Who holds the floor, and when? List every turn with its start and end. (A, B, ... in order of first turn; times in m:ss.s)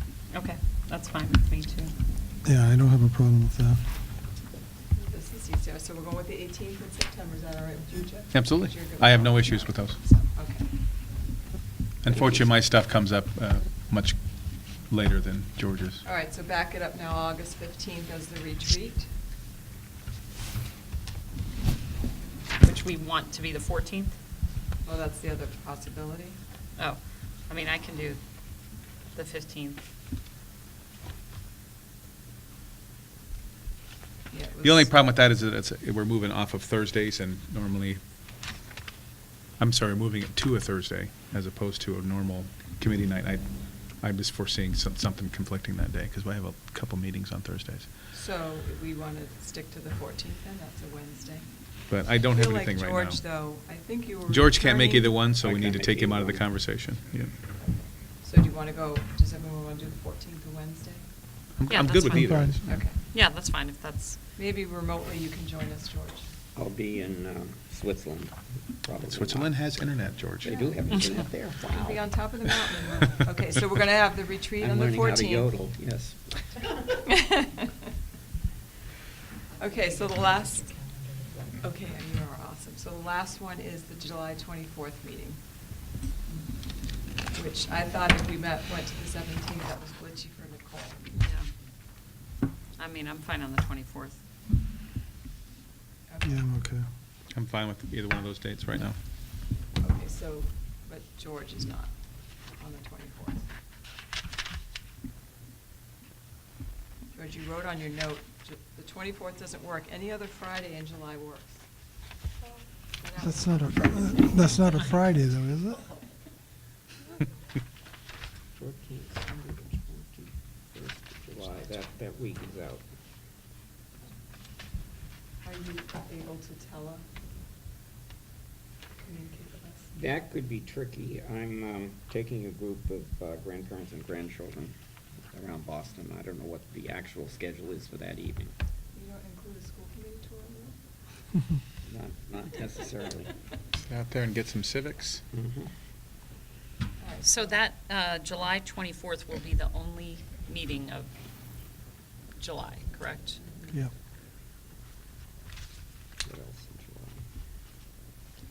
0:00.3-0:01.9 A
0:02.4-0:03.8 B
0:05.0-0:10.8 C
0:08.3-0:10.0 D
0:12.0-0:16.0 D
0:16.0-0:19.1 C
0:22.6-0:24.2 A
0:24.8-0:26.4 C
0:26.8-0:29.8 A
0:34.3-0:34.9 C
0:34.6-0:38.0 D
0:39.6-0:47.9 D
0:48.1-0:55.2 C
0:51.9-0:53.2 D
0:54.3-0:57.4 D
0:55.4-0:56.4 E
0:57.6-1:01.1 C
1:01.6-1:02.8 D
1:01.7-1:04.2 A
1:02.1-1:02.6 B
1:02.7-1:03.0 C
1:04.4-1:06.3 C
1:06.6-1:09.7 E
1:09.1-1:10.6 D
1:10.4-1:12.1 E
1:10.5-1:10.8 C
1:11.7-1:15.5 C
1:14.6-1:16.6 E
1:16.9-1:17.7 C
1:19.6-1:20.9 C
1:21.6-1:25.4 C
1:27.2-1:31.2 C
1:31.2-1:31.5 A
1:32.8-1:34.2 A
1:36.1-1:36.4 C
1:36.2-1:36.9 B
1:37.3-1:39.0 D
1:39.6-1:43.5 C
1:47.1-1:51.6 C
1:53.0-1:54.5 C
1:53.2-1:55.9 B
1:54.5-1:54.9 A
1:58.6-2:02.9 E
2:05.4-2:07.0 C
2:09.0-2:09.9 C
2:09.9-2:18.5 E
2:18.9-2:20.8 C
2:21.8-2:23.3 E
2:23.9-2:25.2 D
2:25.3-2:25.7 E
2:27.0-2:27.6 C
2:27.2-2:31.1 A
2:32.4-2:33.4 A
2:33.4-2:33.8 C
2:36.2-2:37.2 E